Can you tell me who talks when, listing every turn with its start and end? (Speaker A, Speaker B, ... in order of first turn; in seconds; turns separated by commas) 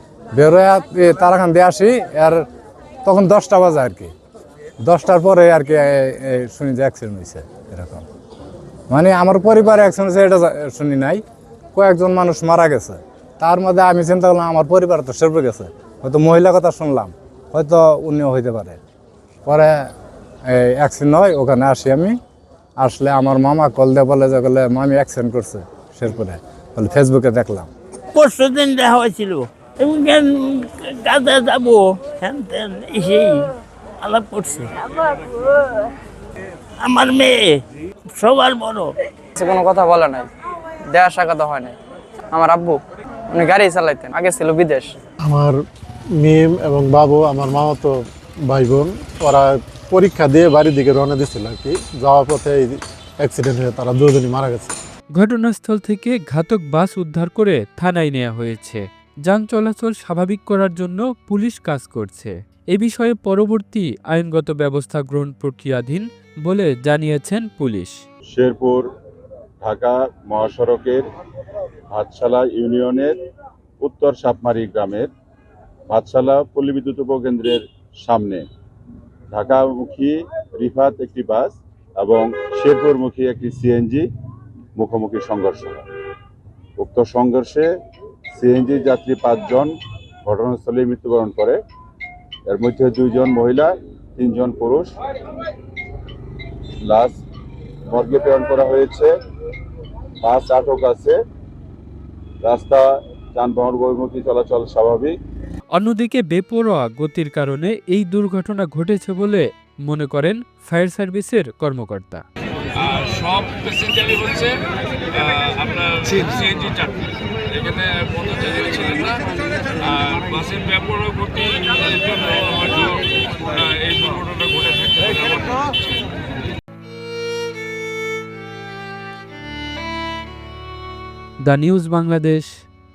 Speaker A: 0.4-2.4, Speaker A: 3.0-4.1, Speaker A: 4.8-8.0, Speaker A: 8.9-11.2, Speaker A: 11.7-18.8, Speaker A: 19.4-19.9, Speaker A: 20.5-22.1, Speaker A: 22.8-27.7, Speaker B: 28.1-33.5, Speaker B: 34.0-35.8, Speaker B: 36.8-38.9, Speaker C: 39.4-40.3, Speaker C: 40.9-41.8, Speaker C: 42.3-42.8, Speaker C: 43.3-45.0, Speaker D: 45.2-45.6, Speaker D: 46.2-48.0, Speaker D: 48.5-54.7, Speaker E: 55.1-68.0, Speaker F: 68.3-68.9, Speaker F: 69.6-71.0, Speaker F: 71.9-73.2, Speaker F: 73.8-75.1, Speaker F: 75.9-78.4, Speaker F: 79.3-84.0, Speaker F: 84.8-85.8, Speaker F: 86.8-87.7, Speaker F: 88.4-89.7, Speaker F: 90.2-91.6, Speaker F: 92.5-95.0, Speaker F: 96.8-97.2, Speaker F: 97.9-99.1, Speaker F: 100.2-101.2, Speaker F: 102.4-105.1, Speaker E: 105.7-112.2, Speaker G: 112.8-114.6, Speaker G: 115.2-116.9, Speaker G: 117.6-119.2, Speaker G: 119.8-123.0, Speaker G: 123.6-125.5, Speaker E: 131.4-132.6